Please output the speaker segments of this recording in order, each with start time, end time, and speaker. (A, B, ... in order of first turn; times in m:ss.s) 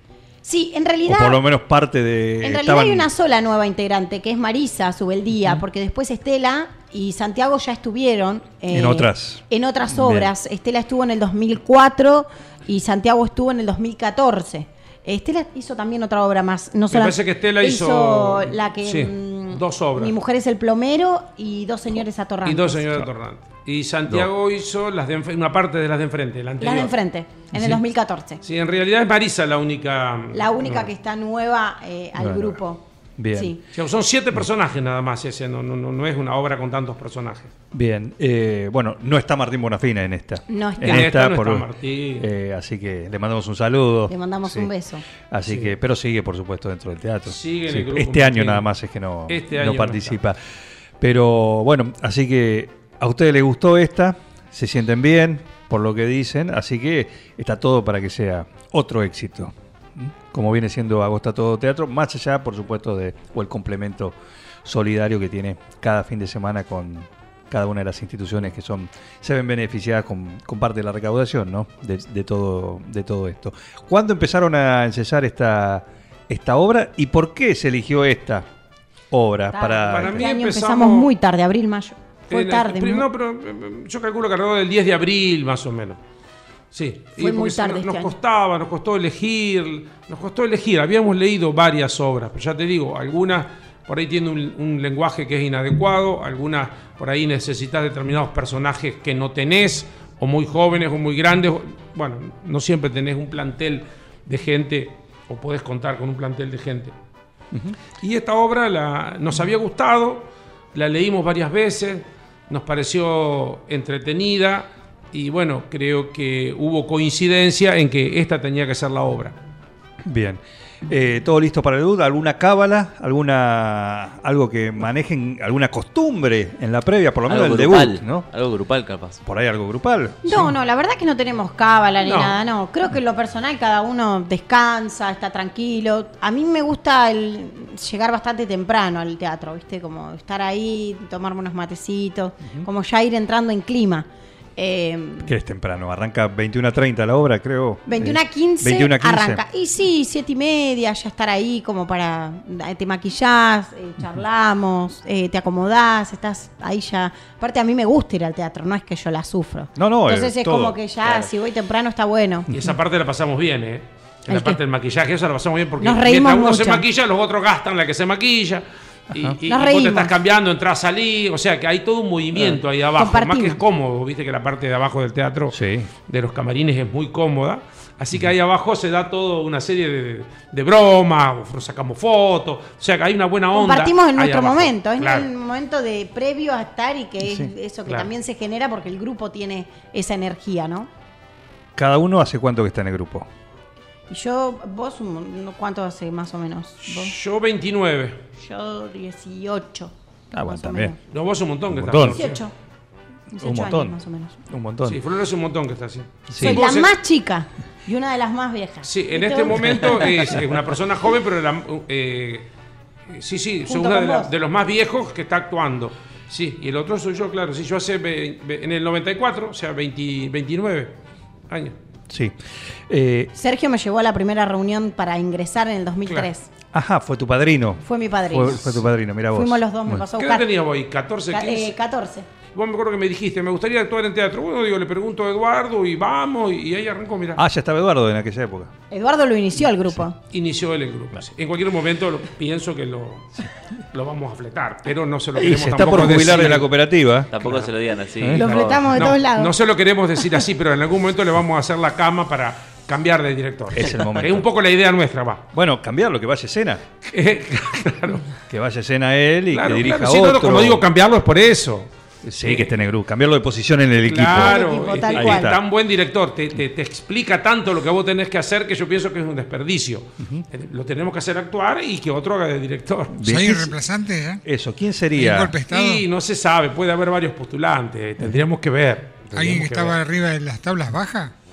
0:00.4-0:01.4 A
0:01.0-0:03.1 B
0:02.4-0:23.0 A
0:08.7-0:10.3 B
0:16.9-0:20.1 C
0:22.4-0:26.9 C
0:26.6-0:28.4 A
0:28.4-0:30.9 C
0:30.3-0:32.8 A
0:32.2-0:32.6 B
0:33.2-0:33.5 B
0:33.3-0:33.6 A
0:33.7-0:37.5 C
0:37.7-0:44.7 B
0:40.5-0:41.1 A
0:40.8-0:42.3 C
0:44.1-0:45.0 A
0:45.3-0:50.4 B
0:45.5-0:45.7 C
0:47.3-0:48.6 C
0:49.3-0:50.2 C
0:51.0-1:18.5 B
1:19.1-1:20.2 B
1:19.5-1:23.0 A
1:19.8-1:21.1 C
1:22.3-1:26.0 C
1:26.7-1:46.9 C
1:27.2-1:28.1 A
1:48.0-1:59.4 C
2:00.0-2:08.3 B
2:07.3-2:09.2 D
2:09.2-2:10.5 B
2:10.2-2:25.3 A
2:12.0-2:12.3 C
2:25.2-2:29.4 B
2:27.9-2:42.5 A
2:39.8-2:40.8 B
2:42.5-3:05.3 C
2:44.3-2:44.6 A
2:45.8-2:46.8 A
2:49.1-2:49.4 B
2:49.5-2:50.1 A
2:53.0-2:53.6 A
2:55.5-2:55.9 B
3:03.5-3:10.9 A
3:07.2-3:07.5 B
3:11.8-3:13.3 B
3:14.1-3:17.1 A
3:16.8-3:18.2 C
3:18.4-3:21.0 A
3:20.3-3:20.9 B
3:21.1-3:22.4 C
3:21.7-3:22.2 B
3:22.1-3:22.5 A
3:23.3-3:24.4 A
3:23.4-3:25.0 B
3:24.8-3:26.9 C
3:26.3-3:26.6 B
3:26.4-3:30.1 A
3:28.8-3:32.5 C
3:33.1-3:41.0 C
3:33.7-3:34.3 A
3:41.5-3:41.7 C
3:42.1-3:42.4 B
3:42.9-3:43.3 B
3:43.3-3:46.5 A
3:46.7-3:50.0 B
3:47.8-3:50.5 A
3:50.2-3:51.7 C
3:51.3-3:52.2 A
3:52.5-3:57.4 C
3:57.4-3:58.7 B
3:58.9-4:00.2 A
4:00.3-4:06.7 C
4:05.4-4:07.3 B
4:07.3-4:08.5 D
4:07.4-4:07.7 C
4:08.2-4:08.4 B
4:08.3-4:09.5 A
4:08.4-4:15.4 C
4:13.7-4:14.5 B
4:15.5-4:16.8 B
4:17.0-4:18.3 C
4:18.5-4:20.8 B
4:19.5-4:22.7 C
4:22.2-4:24.6 B
4:24.0-4:33.2 C
4:24.4-4:25.5 A
4:25.1-4:25.6 B
4:30.2-4:30.4 B
4:33.2-4:33.8 B
4:33.2-4:34.4 E
4:34.4-4:35.6 B
4:35.1-4:36.0 E
4:35.7-4:40.0 C
4:39.3-4:41.3 E